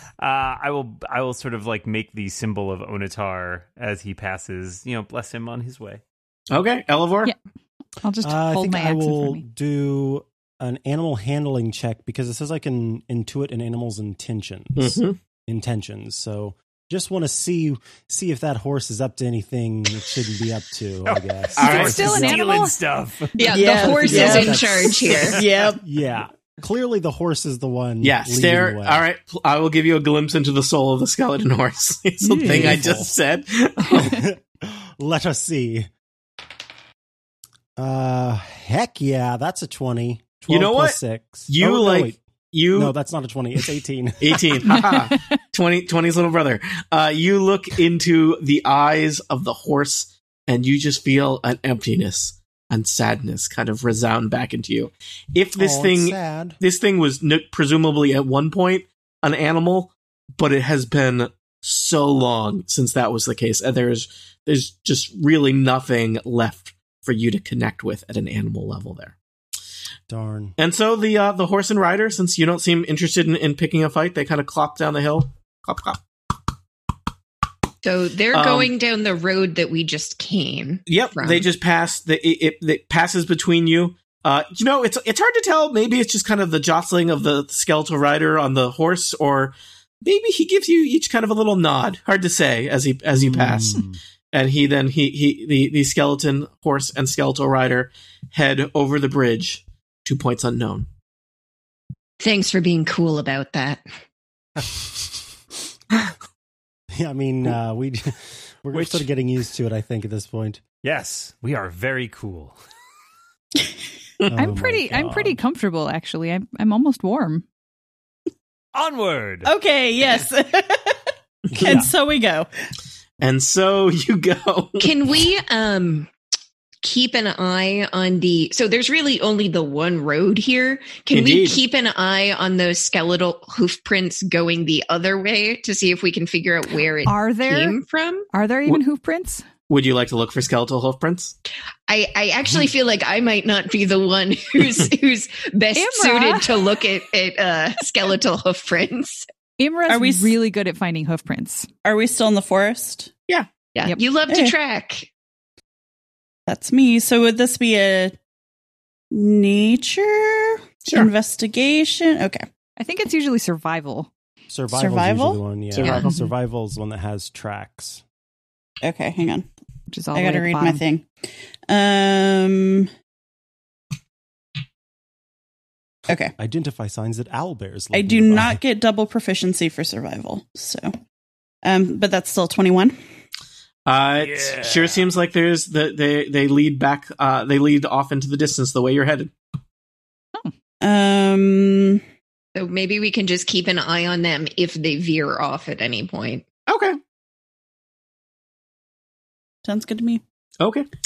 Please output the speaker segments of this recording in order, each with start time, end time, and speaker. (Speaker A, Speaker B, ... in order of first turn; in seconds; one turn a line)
Speaker A: 0.2-6.0
Speaker B: 6.5-7.3
Speaker C: 8.0-9.4
Speaker D: 8.2-22.5
Speaker B: 14.8-15.2
Speaker A: 21.1-23.7
Speaker B: 21.6-22.1
Speaker C: 21.6-22.8
Speaker E: 23.3-25.4
Speaker F: 23.5-24.7
Speaker D: 23.8-25.2
Speaker F: 25.2-25.8
Speaker D: 25.8-29.0
Speaker B: 28.0-34.2
Speaker D: 32.4-33.1
Speaker D: 33.9-35.9
Speaker D: 37.8-42.2
Speaker B: 40.5-42.9
Speaker D: 42.7-44.7
Speaker B: 44.2-69.1
Speaker C: 44.7-45.2
Speaker D: 55.6-56.6
Speaker D: 70.1-70.5
Speaker B: 70.6-76.0
Speaker E: 77.8-81.5
Speaker B: 78.3-78.7
Speaker B: 80.9-100.9
Speaker D: 93.2-93.8
Speaker E: 102.2-103.8
Speaker D: 106.9-110.6
Speaker A: 108.7-109.0
Speaker A: 110.8-112.6
Speaker D: 114.3-115.4
Speaker C: 114.3-117.4
Speaker A: 118.7-119.5
Speaker F: 119.4-121.1
Speaker B: 121.5-121.8
Speaker D: 121.5-121.8
Speaker F: 121.6-122.5
Speaker B: 123.2-124.9
Speaker E: 124.8-126.1
Speaker E: 126.8-138.3
Speaker B: 131.1-131.6
Speaker C: 137.0-137.8
Speaker C: 138.3-139.4
Speaker B: 139.7-141.3
Speaker E: 141.9-149.3
Speaker C: 145.7-146.7
Speaker C: 149.6-151.7
Speaker F: 149.9-150.3
Speaker F: 151.8-153.1
Speaker E: 153.7-155.1
Speaker F: 154.3-154.5
Speaker F: 156.5-158.1
Speaker F: 159.1-162.4
Speaker C: 162.8-164.1
Speaker D: 164.5-168.0
Speaker F: 164.7-165.4
Speaker B: 165.7-166.1
Speaker F: 168.8-169.5
Speaker C: 169.9-170.8
Speaker F: 170.1-171.1
Speaker F: 171.7-172.9
Speaker F: 176.1-176.3
Speaker D: 176.3-178.6
Speaker F: 177.9-180.9
Speaker F: 181.6-183.0
Speaker B: 183.8-189.3
Speaker A: 184.2-185.0
Speaker F: 190.8-192.0
Speaker E: 192.5-196.4
Speaker B: 196.7-197.0
Speaker F: 199.6-200.2
Speaker B: 200.6-200.9